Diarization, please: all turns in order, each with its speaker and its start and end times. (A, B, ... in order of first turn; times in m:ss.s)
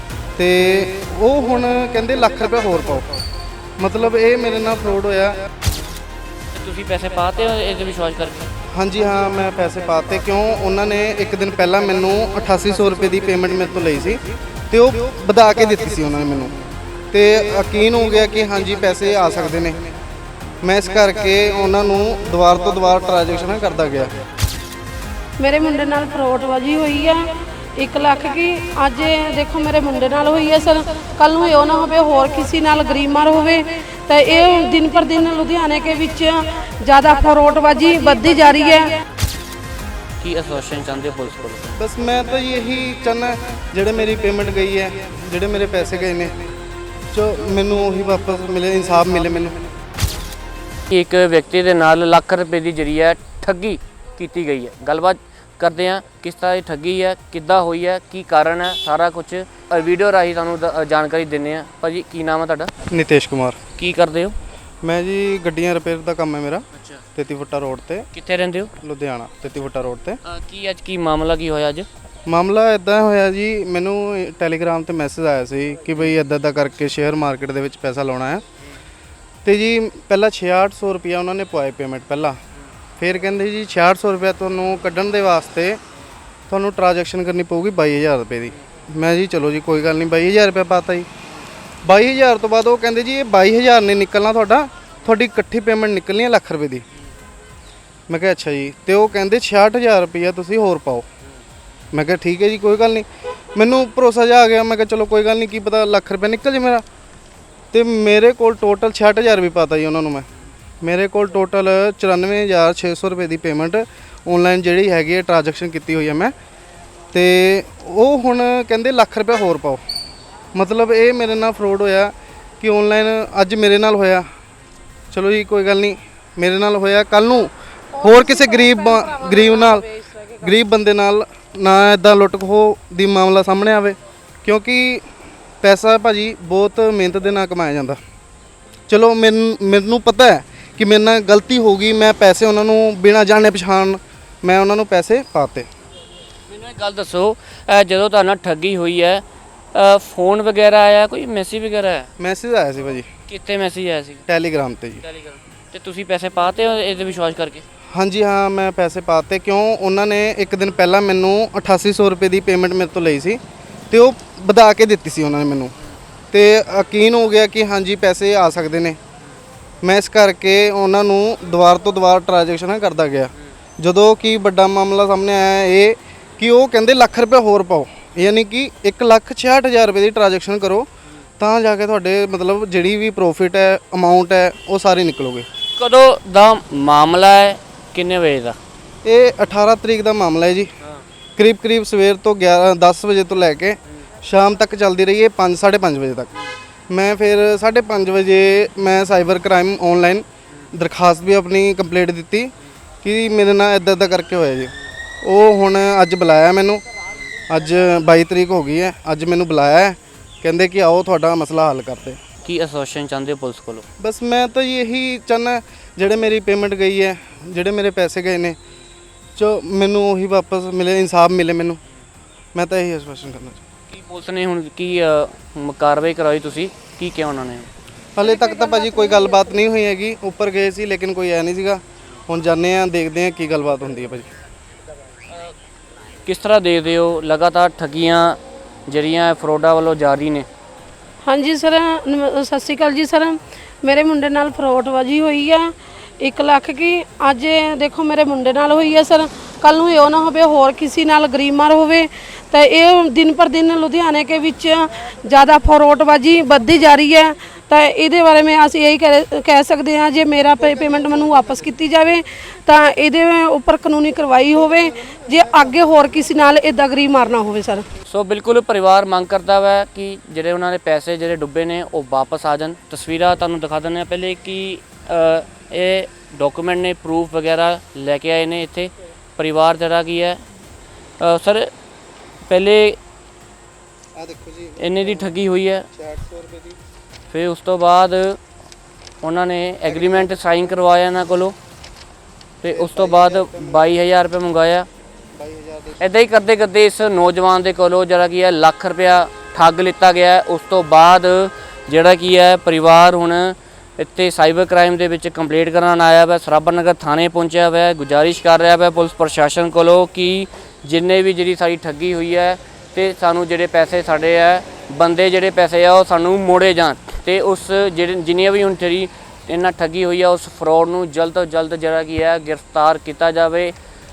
0:00.4-0:03.0 A
0:03.8-0:05.4 A
0:06.5-0:08.5 B
0:08.7-0:16.6 A
0:17.1-0:19.8 A
0:20.6-0:24.1 A
0:25.4-0:39.0 C
0:40.2-0:41.8 B
0:41.8-0:46.4 A
0:47.1-0:49.6 A
0:50.9-1:02.7 B
1:02.9-1:03.6 A
1:03.8-1:04.4 B
1:04.8-1:06.6 A
1:06.8-1:07.0 B
1:07.2-1:08.1 A
1:08.1-1:08.7 B
1:08.8-1:10.2 A
1:10.2-1:11.9 B
1:12.2-1:18.4 A
1:19.4-1:22.4 A
1:23.0-1:25.8 A
1:26.5-1:31.1 A
1:31.8-1:36.8 A
1:38.1-1:41.1 A
1:41.9-1:46.8 A
1:47.7-1:50.3 A
1:50.8-1:56.3 A
1:57.1-1:59.8 A
2:00.5-2:04.3 A
2:05.1-2:09.9 A
2:07.9-2:10.4 C
2:10.4-2:15.0 A
2:15.6-2:18.0 A
2:18.9-2:25.7 A
2:26.5-2:32.1 B
2:32.2-2:33.1 A
2:33.3-2:34.2 B
2:34.3-2:35.0 A
2:35.1-2:37.6 B
2:37.9-2:43.4 A
2:43.9-2:45.7 A
2:46.3-2:49.0 A
2:49.8-3:00.9 A
3:01.4-3:05.5 A
3:05.8-3:08.6 B
3:09.0-3:10.7 A
3:11.4-3:16.3 A
3:16.9-3:26.8 A
3:27.5-3:32.2 A
3:32.4-3:33.8 B
3:34.0-3:38.6 A
3:39.4-3:41.8 A
3:42.5-3:43.6 A
3:43.9-3:47.7 B
3:48.1-3:54.3 A
3:48.4-3:48.7 C
3:56.2-4:00.5 B
4:01.2-4:27.8 C
4:28.1-4:40.4 B
4:41.2-4:41.7 B
4:42.5-4:43.0 B
4:44.2-4:45.3 A
4:44.8-4:45.9 B
4:45.9-4:46.8 A
4:47.3-4:48.4 B
4:49.2-4:51.6 B
4:49.9-4:50.3 A
4:52.6-4:54.9 B
4:52.7-4:53.9 A
4:55.3-4:56.0 A
4:56.0-5:23.7 B